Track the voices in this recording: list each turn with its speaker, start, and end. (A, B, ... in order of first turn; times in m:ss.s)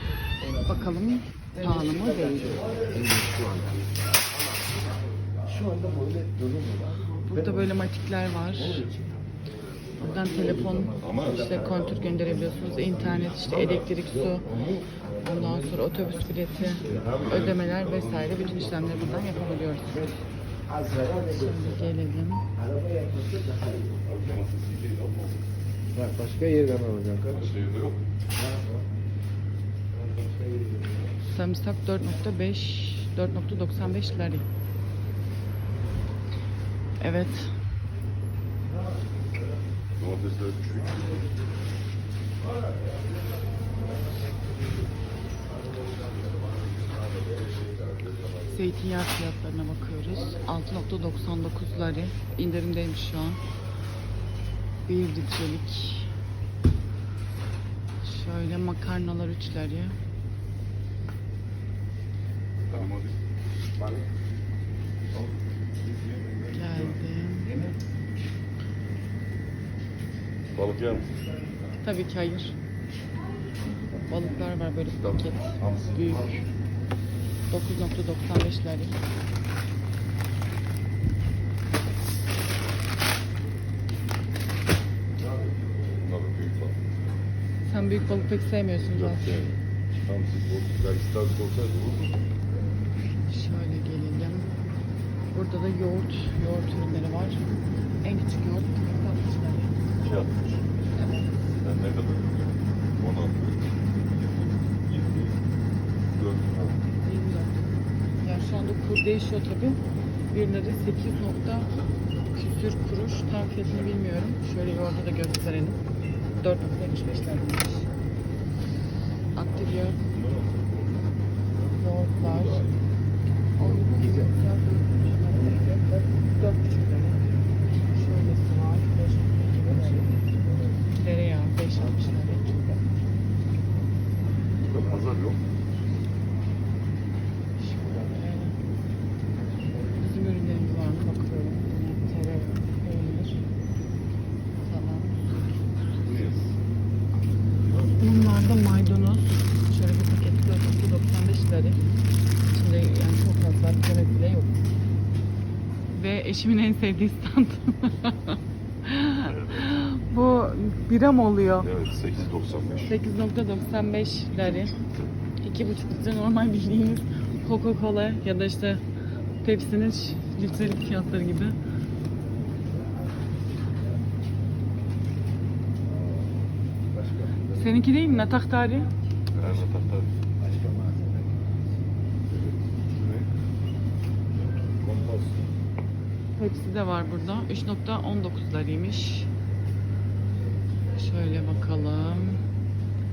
0:00.4-0:00.9 A
0:00.6-0:02.8 B
0:01.5-0:03.8 A
0:05.4-0:07.8 A
0:07.3-0:08.9 B
0:08.6-0:09.2 A
0:10.0-0:14.6 B
0:10.0-0:17.3 A
0:11.0-0:13.9 C
0:15.2-0:20.0 B
0:16.8-0:19.8 C
0:19.9-0:22.0 A
0:21.3-0:22.4 B
0:22.6-0:24.1 A
0:24.1-0:25.5 C
0:25.9-0:27.6 A
0:27.3-0:28.0 C
0:28.3-0:28.9 A
0:29.9-0:31.1 A
0:31.3-0:34.5 B
0:37.0-0:37.6 B
0:40.0-0:41.3 C
0:46.0-0:48.8 C
0:48.5-0:53.4 B
0:54.9-0:56.1 B
0:58.0-1:00.0 B
1:02.7-1:03.2 C
1:03.8-1:04.1 A
1:05.8-1:07.0 C
1:06.5-1:07.6 B
1:07.4-1:07.7 A
1:10.5-1:11.2 C
1:11.8-1:12.6 B
1:14.0-1:16.4 B
1:15.0-1:16.5 C
1:17.5-1:19.0 B
1:25.6-1:26.8 C
1:27.6-1:29.6 B
1:28.8-1:32.2 C
1:33.3-1:34.6 B
1:35.3-1:37.4 B
1:38.0-1:39.8 B
1:40.0-1:40.7 C
1:40.9-1:41.3 B
1:41.6-1:45.4 C
1:46.1-1:46.8 C
1:47.0-1:49.8 B
1:50.3-1:51.7 B
1:52.3-1:55.8 B
1:56.4-1:57.9 B
1:59.4-2:00.0 B
1:59.9-2:01.1 C
2:01.6-2:02.6 B
2:02.2-2:02.8 C
2:03.6-2:07.2 B
2:03.6-2:04.4 A
2:07.9-2:10.1 B
2:09.6-2:10.8 A
2:11.0-2:12.8 B
2:11.7-2:12.7 A
2:14.6-2:15.4 C
2:17.6-2:18.6 B
2:19.9-2:23.4 B
2:24.6-2:25.3 B
2:26.0-2:26.6 C
2:27.6-2:28.5 C
2:28.0-2:31.8 B
2:32.5-2:34.6 B
2:35.9-2:41.7 B
2:39.2-2:39.8 C
2:41.6-2:42.9 C
2:42.9-2:44.7 B
2:44.4-2:45.1 C
2:45.4-2:48.8 B
2:49.4-2:51.6 B
2:55.8-2:58.3 A
2:57.5-2:58.9 B
2:59.3-3:00.1 C
2:59.4-2:59.7 A
3:00.4-3:01.6 A
3:02.3-3:03.3 C
3:04.8-3:05.5 A
3:06.4-3:09.3 B
3:11.0-3:12.4 B